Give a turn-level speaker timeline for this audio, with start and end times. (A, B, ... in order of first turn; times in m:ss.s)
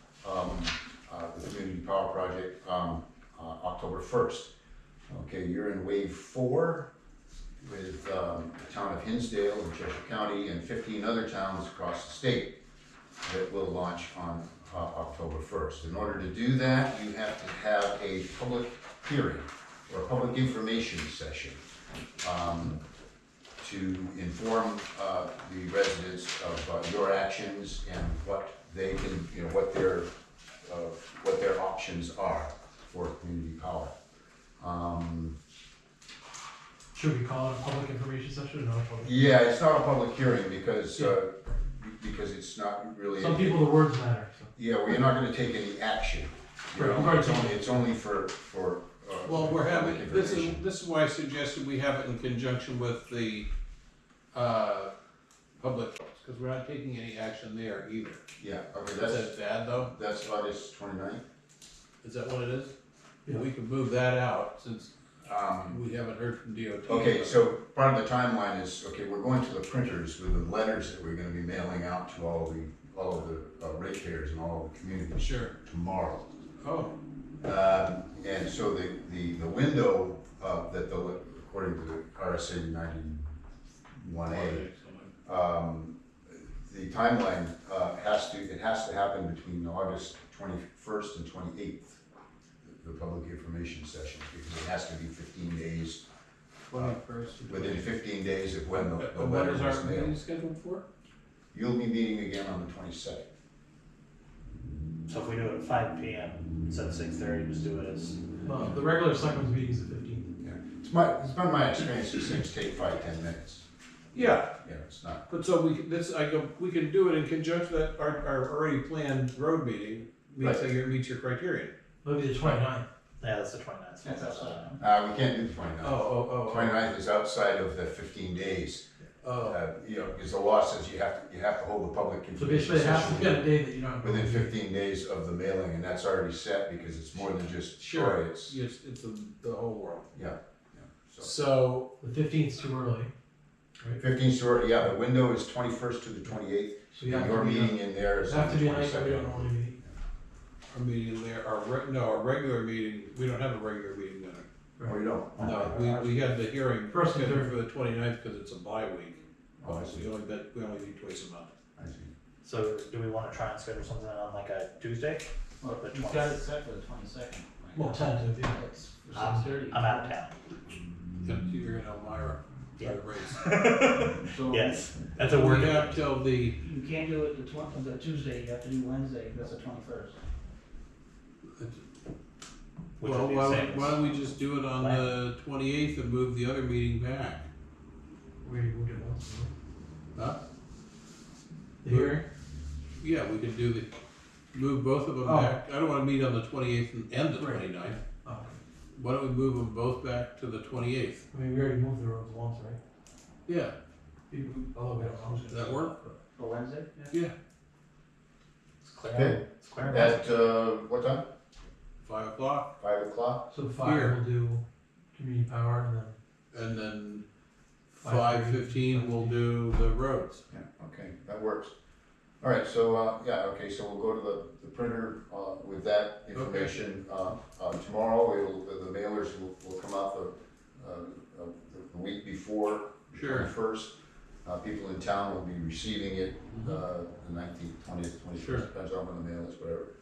0:00.2-0:04.5 A
0:05.1-0:06.9 A
0:07.6-0:12.6 A
0:13.2-0:21.6 A
0:22.2-0:22.8 A
0:23.6-0:30.1 A
0:30.6-0:34.0 A
0:34.6-0:35.4 A
0:36.9-0:39.3 B
0:39.0-0:43.7 A
0:43.2-0:44.5 B
0:44.6-0:50.6 A
0:46.7-0:47.8 B
0:49.3-0:53.5 C
0:54.3-0:54.9 C
0:55.6-0:58.2 C
0:58.4-1:01.2 A
0:59.0-0:59.9 C
1:02.0-1:02.7 C
1:03.3-1:04.9 C
1:05.2-1:05.8 A
1:05.6-1:07.5 C
1:06.9-1:16.2 A
1:15.2-1:15.6 C
1:16.6-1:16.9 C
1:17.4-1:23.3 A
1:23.9-1:24.6 A
1:24.3-1:25.1 C
1:25.2-1:32.0 A
1:32.7-1:36.0 A
1:36.7-1:37.9 C
1:36.7-1:40.2 A
1:38.7-1:40.9 C
1:41.5-1:43.3 A
1:45.1-1:48.4 D
1:48.4-1:50.3 B
1:50.4-1:53.6 A
1:54.1-1:54.5 C
1:54.6-1:55.2 A
1:55.3-2:01.7 C
2:00.4-2:00.7 A
2:02.0-2:02.9 B
2:03.2-2:04.8 D
2:04.0-2:04.8 E
2:04.8-2:08.8 A
2:05.8-2:06.8 C
2:09.2-2:09.6 C
2:09.4-2:18.6 A
2:12.4-2:14.6 B
2:17.8-2:20.2 C
2:20.1-2:21.3 A
2:21.2-2:21.9 C
2:22.0-2:23.1 B
2:24.0-2:29.9 A
2:26.9-2:29.8 B
2:30.7-2:34.5 C
2:34.8-2:35.0 B
2:34.8-2:35.8 A
2:35.4-2:36.4 D
2:35.4-2:41.5 C
2:36.9-2:37.6 B
2:39.6-2:40.1 A
2:41.8-2:42.1 A
2:42.4-2:46.4 D
2:45.6-2:50.1 E
2:47.8-2:48.6 B
2:49.1-2:50.4 D
2:51.2-2:53.6 C
2:52.8-2:56.0 D
2:54.2-2:55.7 E
2:55.2-2:56.6 C
2:56.6-3:00.2 E
3:01.6-3:01.8 C
3:03.0-3:05.1 D
3:03.0-3:07.5 C
3:08.4-3:09.5 B
3:11.8-3:12.2 B
3:11.9-3:12.2 C
3:13.0-3:13.9 C
3:14.5-3:18.0 C
3:15.2-3:15.6 B
3:17.4-3:18.6 B
3:19.0-3:21.2 C
3:21.3-3:22.8 B
3:23.5-3:23.8 C
3:24.3-3:26.1 B
3:25.5-3:25.9 C
3:26.4-3:26.9 D
3:28.8-3:30.2 D
3:29.1-3:31.2 A
3:29.8-3:30.1 B
3:32.0-3:32.7 C
3:32.8-3:33.5 A
3:33.5-3:34.6 B
3:33.8-3:34.2 C
3:35.1-3:36.2 B
3:36.5-3:37.2 C
3:37.9-3:40.4 C
3:38.0-3:39.4 B
3:40.5-3:41.7 A
3:42.4-3:59.9 A
3:46.3-3:46.8 C
3:53.1-3:53.5 C
3:58.4-3:58.7 C